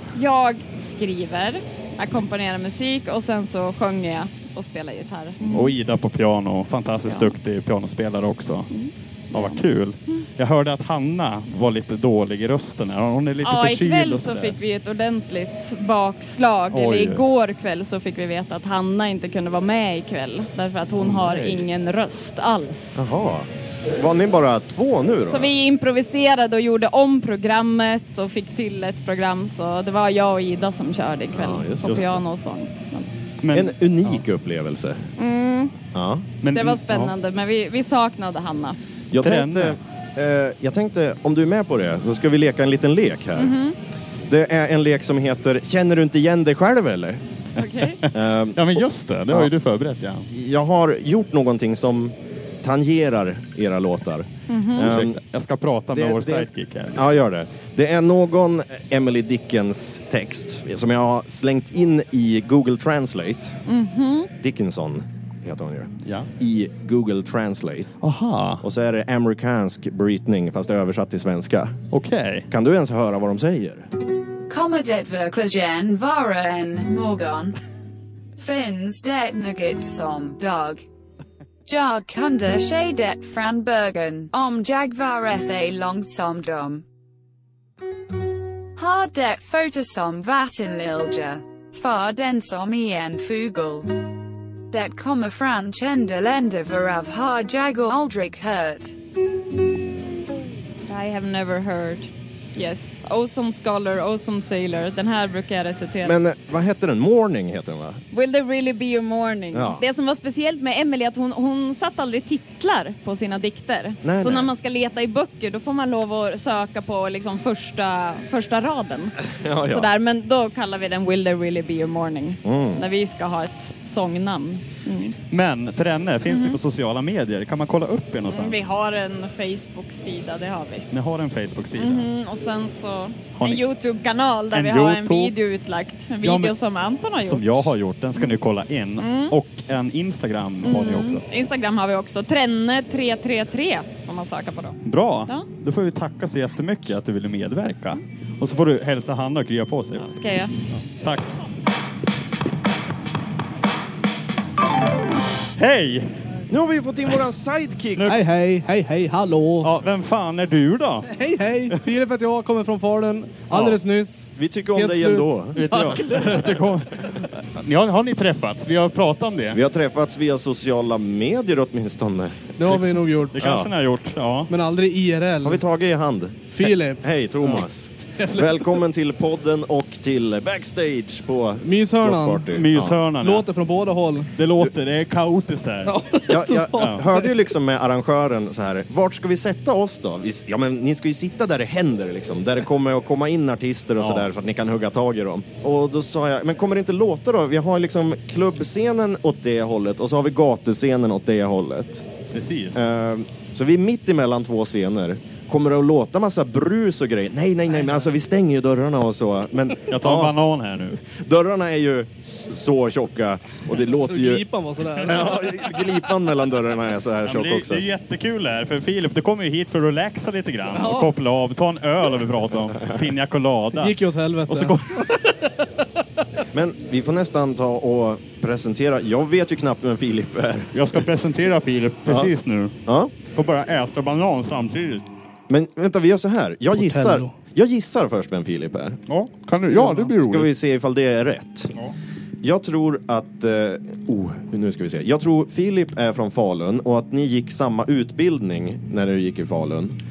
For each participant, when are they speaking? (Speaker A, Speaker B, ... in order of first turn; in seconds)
Speaker A: 0.1-5.7, 8.7-10.2, 13.4-23.1, 25.3-33.1, 35.2-35.8, 36.5-38.8, 43.4-43.8, 47.6-48.0, 54.5-54.9, 63.7-64.3, 100.9-106.2, 108.1-125.2, 126.3-126.6, 128.3-130.9, 131.8-138.3, 139.0-139.3, 140.6-145.5, 150.0-150.5
Speaker B: 5.5-8.7, 9.3-14.6, 16.7-17.2, 33.4-34.2, 36.4-37.1, 39.2-39.8, 48.0-50.3, 54.8-57.1, 68.0-68.6, 71.9-72.5, 125.3-128.6, 130.9-132.1, 133.4-133.6, 134.5-135.3, 136.2-136.5, 137.2-141.2, 144.8-150.1, 150.9-151.3, 155.6-156.1, 158.0-158.2, 159.6-161.1, 163.5-163.8, 165.5-169.6, 173.3-174.5, 182.5-183.5, 184.4-185.9, 186.8-187.0, 194.0-194.3, 202.3-202.8, 209.9-211.0, 217.2-224.0, 224.5-225.2, 230.7-232.8, 233.3-235.1, 239.1-240.5
Speaker C: 21.0-21.7, 23.0-25.5, 31.3-32.2, 33.5-35.1, 35.9-36.3, 39.1-43.5, 44.3-47.2, 48.1-49.5, 50.3-55.2, 55.9-63.6, 64.4-68.0, 68.6-71.8, 72.5-73.9, 106.0-108.0, 109.5-109.8, 114.0-114.5, 119.2-119.9, 122.5-122.8, 156.5-158.1, 164.4-166.5, 169.5-172.7, 173.4-173.7, 175.4-183.0, 186.3-202.1, 202.8-210.3, 211.0-217.8, 226.5-230.9, 232.1-232.3, 232.9-233.2, 235.5-239.0, 239.7-241.7, 242.4-250.0
Speaker D: 74.5-77.5, 78.4-80.8, 81.7-86.8, 88.8-93.9, 94.7-98.9
Speaker E: 158.1-159.7, 161.1-166.5, 172.6-173.4, 174.5-175.6, 176.5-177.0, 178.2-178.7, 181.6-182.5, 183.2-184.3, 185.9-187.3, 213.9-215.6, 220.7-221.1, 223.8-225.7, 236.8-237.3